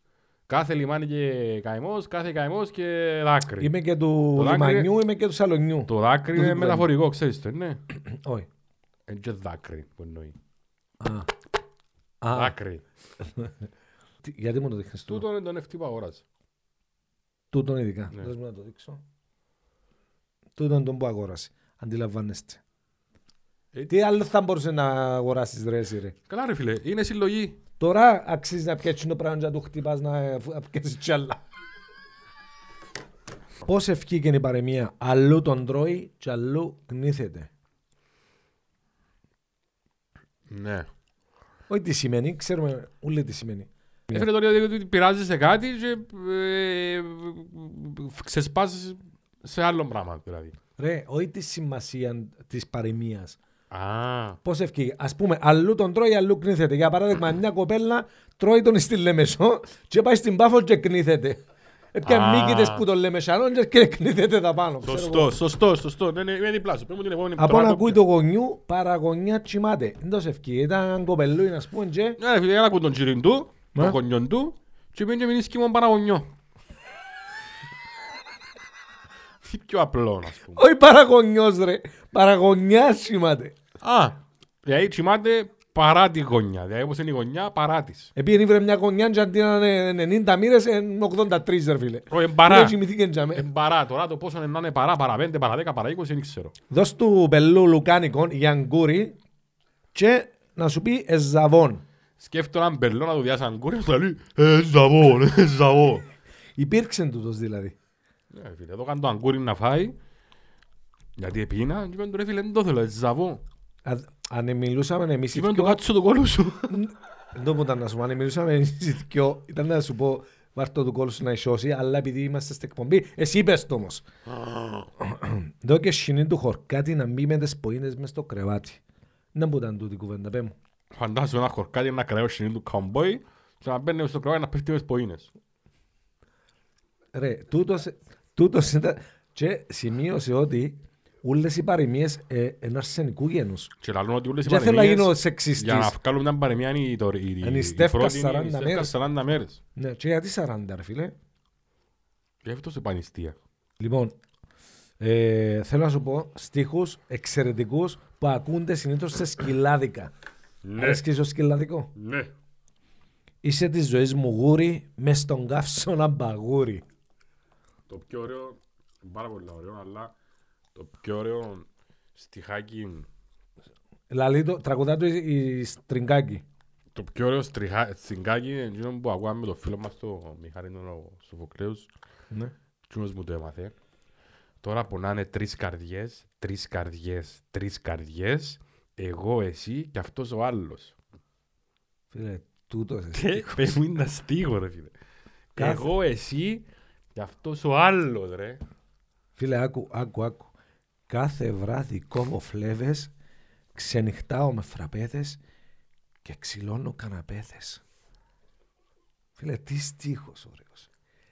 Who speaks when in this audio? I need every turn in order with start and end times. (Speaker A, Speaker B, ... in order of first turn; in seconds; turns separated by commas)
Speaker A: 0.5-3.7, Speaker B: 3.6-6.9, Speaker A: 4.3-4.9, Speaker A: 5.9-7.8, Speaker B: 7.9-8.5, Speaker A: 9.1-10.3, Speaker B: 11.0-11.3, Speaker B: 12.2-12.5, Speaker A: 12.3-12.8, Speaker B: 13.2-13.5, Speaker B: 14.2-15.2, Speaker A: 15.1-16.2, Speaker B: 17.5-19.0, Speaker B: 20.6-22.6, Speaker B: 23.9-26.1, Speaker A: 26.3-27.6, Speaker B: 27.8-31.4, Speaker B: 33.6-37.5, Speaker A: 40.5-40.9, Speaker B: 41.7-44.3, Speaker A: 44.1-50.5, Speaker B: 50.8-53.4, Speaker A: 53.7-54.4, Speaker B: 54.4-65.3, Speaker A: 62.0-62.8, Speaker A: 64.8-68.0, Speaker B: 67.4-72.2, Speaker A: 72.2-76.3, Speaker A: 79.4-80.6, Speaker B: 80.5-83.6, Speaker A: 83.8-88.1, Speaker B: 88.2-93.5, Speaker A: 92.1-92.8, Speaker A: 93.3-96.5, Speaker B: 96.7-99.2, Speaker B: 99.9-101.8, Speaker A: 102.2-106.1, Speaker B: 106.5-107.7, Speaker A: 108.3-110.0, Speaker A: 111.2-113.4, Speaker B: 113.8-115.8, Speaker A: 115.3-116.8, Speaker B: 116.7-124.0, Speaker A: 124.3-124.8, Speaker B: 125.0-128.8, Speaker B: 129.3-130.5, Speaker A: 130.9-135.3, Speaker B: 137.1-143.7, Speaker A: 143.8-149.6, Speaker B: 144.4-145.9, Speaker B: 147.4-148.9, Speaker B: 149.7-151.1, Speaker A: 152.4-153.4, Speaker B: 153.8-154.2, Speaker B: 155.0-160.1, Speaker A: 160.6-161.0, Speaker B: 160.8-161.9, Speaker A: 161.9-162.3, Speaker B: 163.4-166.8, Speaker A: 167.9-170.1, Speaker A: 170.7-173.1, Speaker B: 174.1-176.4, Speaker A: 176.9-181.9, Speaker A: 182.9-183.7, Speaker A: 184.6-190.9, Speaker B: 192.1-193.8, Speaker A: 193.1-194.9, Speaker A: 195.5-198.6, Speaker B: 195.6-195.9, Speaker B: 199.4-200.5, Speaker B: 201.1-203.1, Speaker B: 203.7-205.4, Speaker B: 206.2-207.8, Speaker B: 209.3-210.9